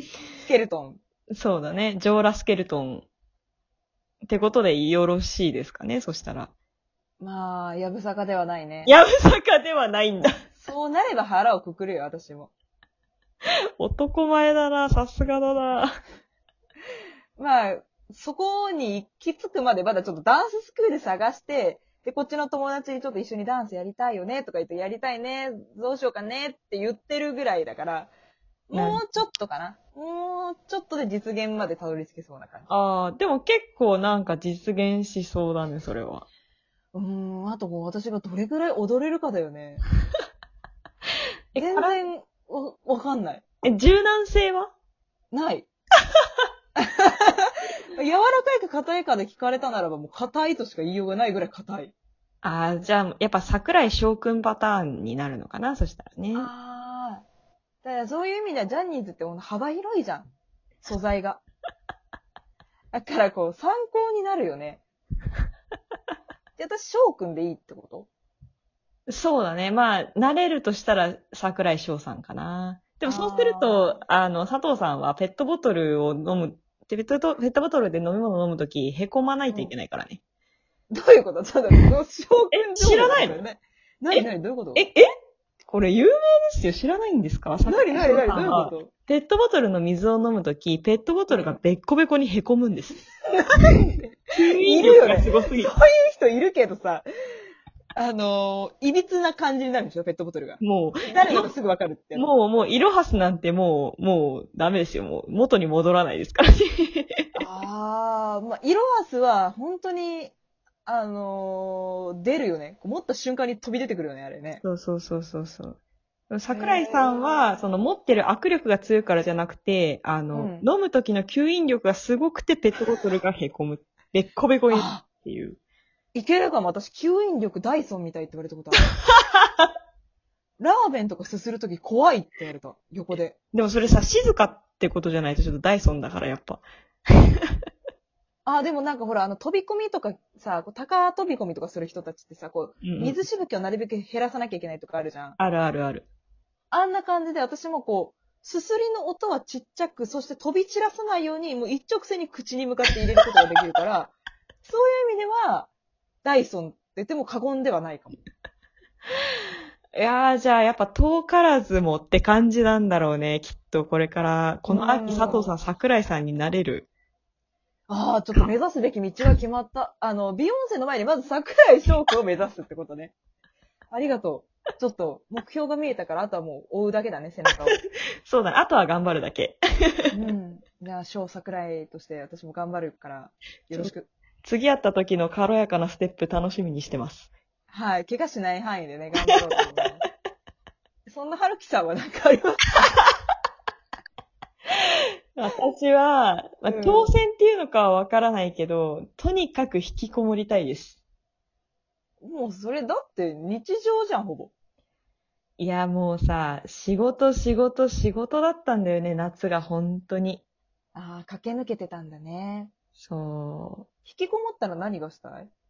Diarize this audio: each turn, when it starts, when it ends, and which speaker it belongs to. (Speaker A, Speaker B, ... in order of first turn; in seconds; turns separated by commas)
Speaker A: 0.4-1.0, Speaker B: 1.3-3.1, Speaker B: 4.2-6.5, Speaker A: 7.2-8.9, Speaker B: 8.8-10.3, Speaker A: 10.6-12.5, Speaker B: 13.8-15.9, Speaker A: 17.4-28.1, Speaker A: 28.7-32.7, Speaker B: 28.7-29.1, Speaker B: 32.7-36.3, Speaker A: 36.9-39.9, Speaker B: 41.5-41.9, Speaker A: 41.5-43.4, Speaker B: 43.6-44.7, Speaker A: 45.3-45.7, Speaker A: 46.8-51.9, Speaker B: 52.4-56.5, Speaker A: 56.3-57.2, Speaker A: 57.8-60.3, Speaker A: 60.8-61.4, Speaker A: 62.9-64.8, Speaker A: 66.6-68.1, Speaker B: 69.1-80.2, Speaker A: 73.0-73.9, Speaker A: 80.9-84.8, Speaker B: 82.5-83.4, Speaker B: 84.1-85.1, Speaker B: 85.7-93.0, Speaker A: 87.7-88.9, Speaker A: 93.3-97.1, Speaker B: 94.3-95.7, Speaker A: 98.0-102.3, Speaker B: 100.6-101.5, Speaker B: 102.2-107.2, Speaker A: 107.4-110.3, Speaker A: 110.9-114.6, Speaker B: 114.6-115.8, Speaker B: 116.3-125.6, Speaker A: 116.5-117.2, Speaker A: 120.3-120.7, Speaker A: 124.7-125.0, Speaker A: 126.1-128.9, Speaker A: 130.6-133.4, Speaker B: 133.5-136.7, Speaker B: 137.2-137.5, Speaker A: 138.4-145.4, Speaker B: 142.8-143.2, Speaker B: 145.4-146.1, Speaker A: 146.7-155.7, Speaker A: 156.2-158.2, Speaker B: 159.9-166.9, Speaker A: 164.7-165.5, Speaker A: 167.9-173.1, Speaker A: 173.9-177.8, Speaker B: 178.3-180.1, Speaker A: 180.1-184.1, Speaker B: 184.4-187.3, Speaker A: 187.7-190.1, Speaker A: 191.1-192.8, Speaker B: 195.3-201.0, Speaker A: 196.7-197.1, Speaker A: 202.2-204.5, Speaker B: 205.6-210.4, Speaker A: 210.9-212.7, Speaker B: 213.0-213.9, Speaker A: 214.1-215.5